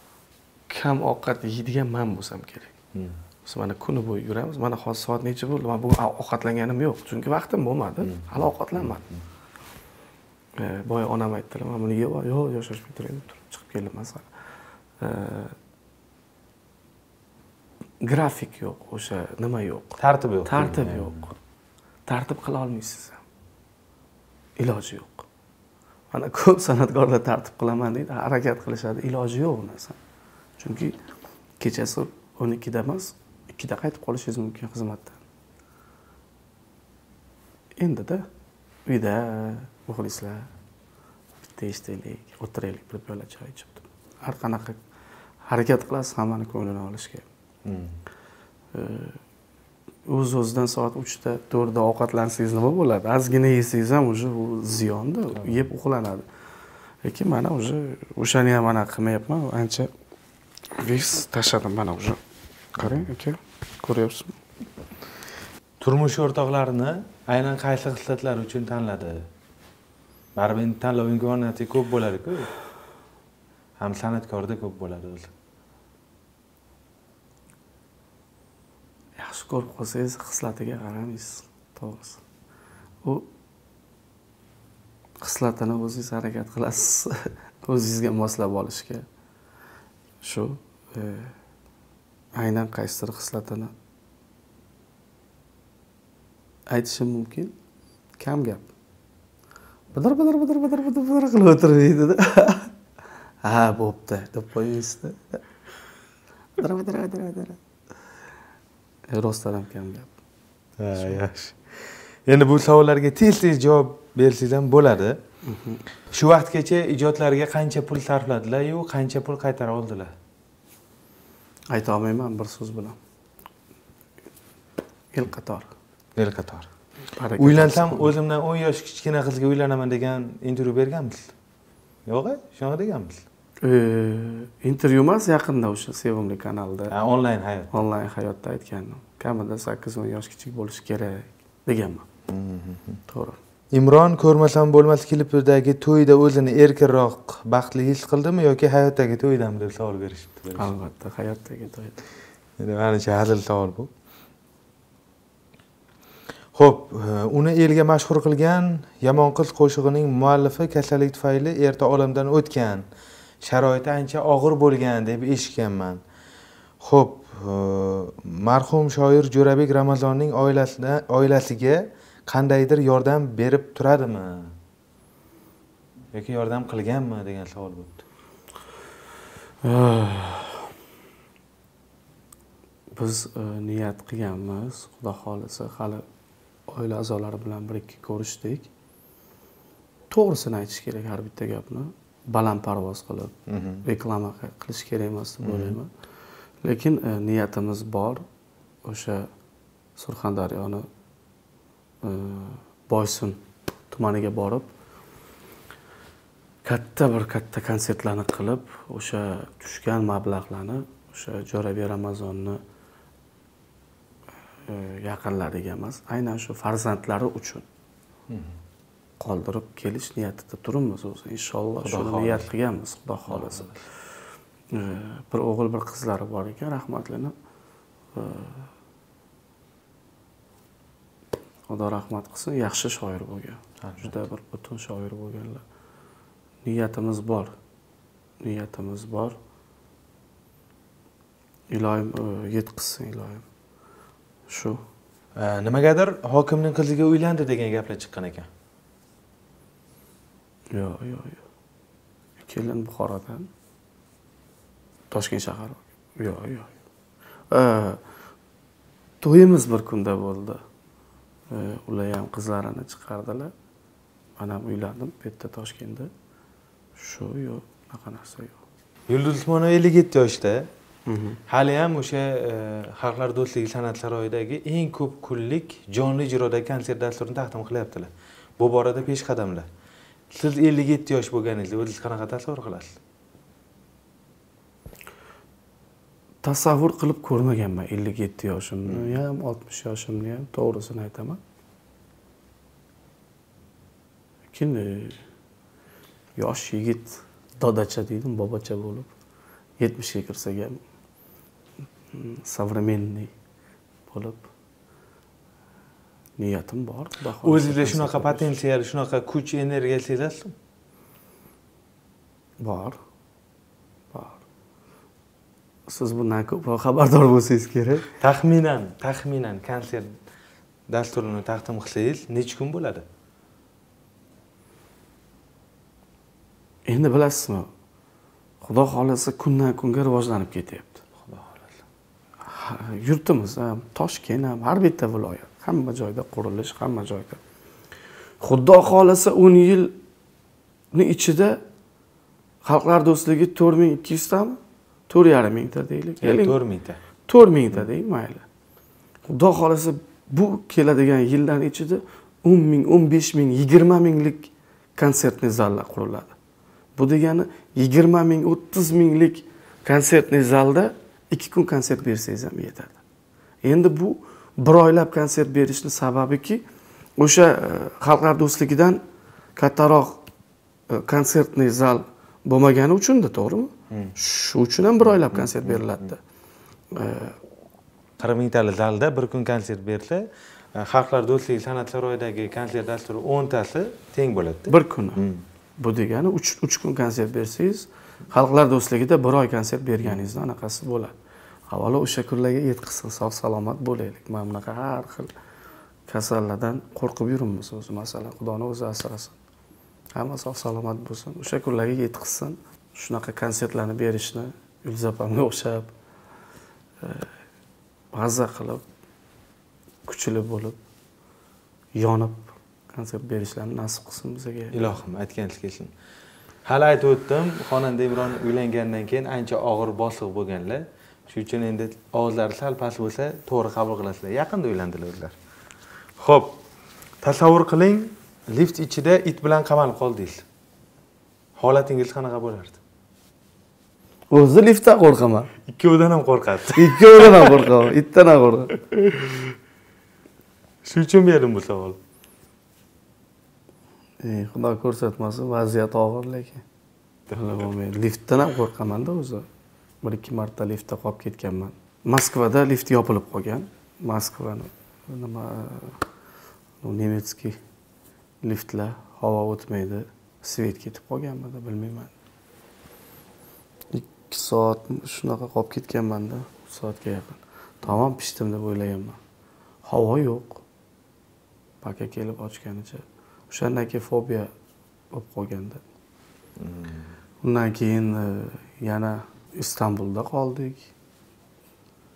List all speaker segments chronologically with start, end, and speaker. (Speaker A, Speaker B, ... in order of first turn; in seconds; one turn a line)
Speaker A: 0.7-2.7
Speaker A: 3.4-9.1
Speaker B: 8.0-9.0
Speaker A: 10.6-14.3
Speaker A: 15.0-15.5
Speaker A: 18.0-21.3
Speaker B: 20.0-21.2
Speaker A: 22.1-23.2
Speaker A: 24.6-25.2
Speaker A: 26.1-30.0
Speaker A: 30.6-31.0
Speaker A: 31.6-35.2
Speaker A: 37.8-38.2
Speaker A: 38.9-40.5
Speaker A: 41.6-44.8
Speaker A: 45.5-47.3
Speaker B: 47.6-48.0
Speaker A: 48.7-49.2
Speaker A: 50.0-56.2
Speaker A: 57.0-59.9
Speaker A: 60.7-62.2
Speaker B: 62.8-63.0
Speaker A: 62.8-64.4
Speaker B: 65.8-69.3
Speaker B: 70.3-72.5
Speaker B: 73.8-75.3
Speaker A: 79.2-82.2
Speaker A: 85.2-89.0
Speaker A: 90.2-91.3
Speaker A: 92.3-93.7
Speaker A: 96.7-97.5
Speaker A: 98.2-98.7
Speaker A: 99.9-102.7
Speaker A: 103.4-105.4
Speaker A: 106.6-107.6
Speaker A: 109.1-110.1
Speaker B: 110.8-115.2
Speaker A: 115.4-115.8
Speaker B: 116.1-120.1
Speaker A: 121.7-123.0
Speaker A: 125.1-125.7
Speaker B: 126.2-126.7
Speaker A: 127.1-128.1
Speaker B: 127.4-131.3
Speaker B: 132.1-133.2
Speaker A: 133.6-136.9
Speaker B: 136.9-137.7
Speaker A: 137.7-142.1
Speaker B: 142.3-143.0
Speaker A: 143.1-143.4
Speaker B: 143.7-150.7
Speaker A: 150.6-152.0
Speaker B: 152.6-153.9
Speaker B: 156.5-162.8
Speaker B: 163.4-166.0
Speaker B: 166.8-174.5
Speaker B: 176.1-178.0
Speaker A: 179.6-180.7
Speaker A: 182.9-186.0
Speaker A: 186.7-188.7
Speaker A: 190.1-195.9
Speaker B: 193.5-193.8
Speaker B: 195.4-195.8
Speaker A: 196.6-198.2
Speaker A: 198.8-199.3
Speaker A: 199.9-200.8
Speaker A: 202.0-203.4
Speaker A: 203.9-204.7
Speaker A: 206.6-212.6
Speaker A: 214.7-217.6
Speaker B: 218.3-218.5
Speaker A: 219.2-223.8
Speaker B: 221.8-222.5
Speaker B: 223.3-223.8
Speaker A: 224.7-227.3
Speaker A: 228.1-228.7
Speaker A: 231.7-235.6
Speaker B: 233.8-234.2
Speaker A: 236.6-237.5
Speaker A: 238.4-239.3
Speaker A: 241.7-243.4
Speaker A: 244.5-244.8
Speaker B: 245.3-248.5
Speaker A: 250.7-251.4
Speaker A: 252.4-253.5
Speaker A: 255.1-256.7
Speaker A: 257.5-258.0
Speaker A: 259.2-260.6
Speaker A: 261.5-263.5
Speaker A: 264.4-266.1
Speaker A: 267.0-268.6
Speaker B: 269.1-270.7
Speaker A: 271.1-271.4
Speaker B: 271.5-279.7
Speaker B: 280.3-283.0
Speaker A: 286.4-291.4
Speaker B: 288.9-289.2
Speaker A: 294.5-295.2
Speaker A: 296.4-299.1
Speaker A: 299.8-300.8
Speaker A: 302.1-303.3
Speaker A: 304.1-304.5
Speaker A: 306.4-308.5
Speaker B: 307.4-310.5
Speaker A: 312.6-313.0
Speaker A: 314.1-314.4
Speaker A: 315.9-318.1
Speaker B: 318.2-320.1
Speaker B: 320.9-323.1
Speaker A: 326.9-327.7
Speaker A: 328.6-331.0
Speaker B: 331.2-331.8
Speaker A: 332.4-337.4
Speaker A: 338.4-340.0
Speaker A: 340.9-341.6
Speaker A: 342.6-344.6
Speaker A: 345.1-346.6
Speaker B: 346.2-347.0
Speaker A: 347.3-348.4
Speaker A: 349.2-356.3
Speaker A: 356.9-363.0
Speaker A: 363.6-366.6
Speaker A: 367.2-369.0
Speaker A: 369.6-370.2
Speaker A: 370.9-376.2
Speaker B: 375.3-375.8
Speaker A: 376.9-377.4
Speaker B: 378.2-385.4
Speaker A: 384.7-385.2
Speaker A: 385.8-391.1
Speaker A: 391.7-395.3
Speaker A: 396.1-399.4
Speaker A: 400.1-405.9
Speaker A: 407.0-407.3
Speaker A: 408.1-408.8
Speaker A: 410.1-410.8
Speaker A: 411.9-414.9
Speaker B: 414.7-415.9
Speaker B: 416.6-425.3
Speaker B: 426.2-426.6
Speaker B: 427.2-430.4
Speaker B: 431.6-432.8
Speaker A: 434.3-435.5
Speaker B: 435.6-437.7
Speaker A: 436.7-438.8
Speaker B: 438.8-439.6
Speaker B: 440.8-442.0
Speaker A: 444.2-446.6
Speaker A: 447.3-449.4
Speaker A: 450.0-456.0
Speaker A: 456.8-457.6
Speaker A: 458.4-462.1
Speaker A: 463.9-469.2
Speaker A: 469.8-470.6
Speaker A: 471.8-474.5
Speaker A: 475.1-475.8
Speaker B: 476.6-477.1
Speaker A: 477.4-480.9